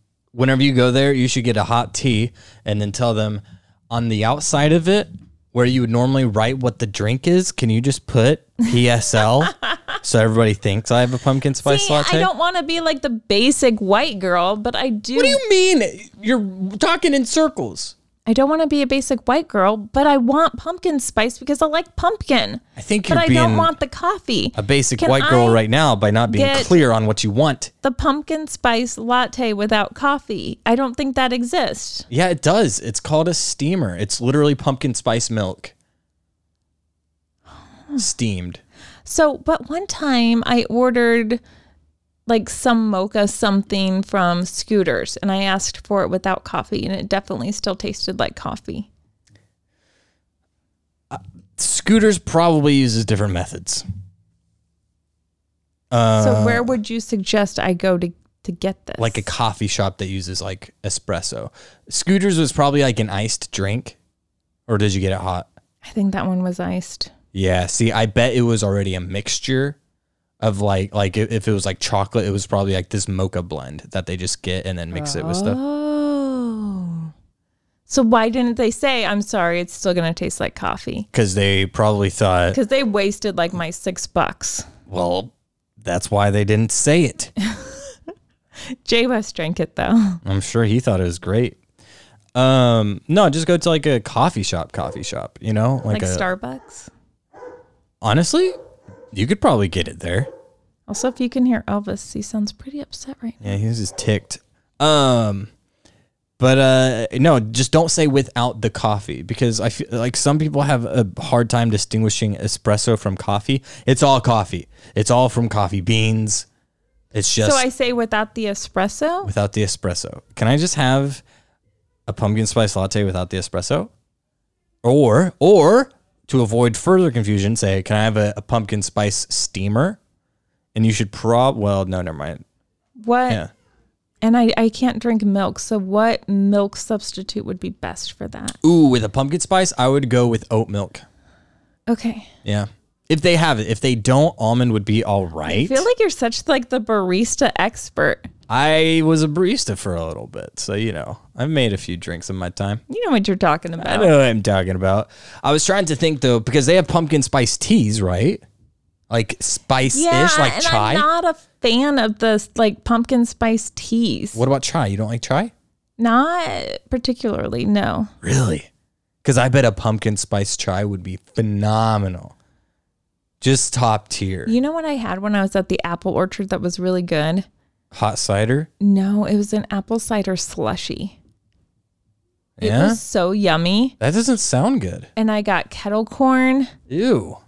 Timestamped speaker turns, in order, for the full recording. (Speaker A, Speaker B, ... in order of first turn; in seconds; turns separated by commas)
Speaker A: 0.3-12.3, Speaker B: 11.6-15.4, Speaker A: 15.1-17.9, Speaker B: 18.2-25.6, Speaker A: 22.8-23.7, Speaker A: 24.5-27.7, Speaker B: 26.3-26.8, Speaker B: 27.8-32.1, Speaker A: 32.1-35.7, Speaker A: 38.0-38.6, Speaker B: 39.0-41.4, Speaker B: 42.3-48.9, Speaker A: 51.1-53.8, Speaker A: 55.9-56.7, Speaker B: 56.2-59.3, Speaker A: 59.0-64.0, Speaker A: 64.7-65.5, Speaker B: 65.8-67.1, Speaker A: 67.3-69.8, Speaker A: 70.4-75.6, Speaker B: 74.9-77.1, Speaker B: 77.9-81.1, Speaker A: 81.1-82.6, Speaker B: 82.5-84.7, Speaker A: 84.9-87.3, Speaker B: 88.8-90.2, Speaker A: 90.2-91.6, Speaker A: 92.3-96.2, Speaker B: 95.9-96.9, Speaker A: 98.0-98.5, Speaker A: 99.1-100.3, Speaker B: 100.9-103.5, Speaker A: 103.4-105.5, Speaker A: 106.4-116.5, Speaker A: 117.1-117.7, Speaker B: 117.4-119.3, Speaker A: 119.2-121.2, Speaker A: 122.1-123.9, Speaker A: 124.8-130.0, Speaker A: 130.7-132.4, Speaker B: 133.0-133.4, Speaker B: 134.2-138.6, Speaker A: 138.6-141.0, Speaker B: 141.9-142.3, Speaker A: 142.4-145.9, Speaker B: 145.4-148.3, Speaker A: 148.5-152.8, Speaker B: 152.9-154.1, Speaker A: 153.8-158.4, Speaker A: 159.1-161.1, Speaker B: 159.9-164.4, Speaker A: 164.3-165.5, Speaker B: 166.0-168.1, Speaker A: 168.2-168.7, Speaker A: 169.2-172.3, Speaker A: 173.4-174.5, Speaker B: 174.4-177.4, Speaker A: 177.9-178.7, Speaker B: 178.8-181.2, Speaker A: 182.6-183.0, Speaker B: 182.6-183.9, Speaker A: 184.0-185.1, Speaker B: 185.2-186.7, Speaker A: 186.9-187.4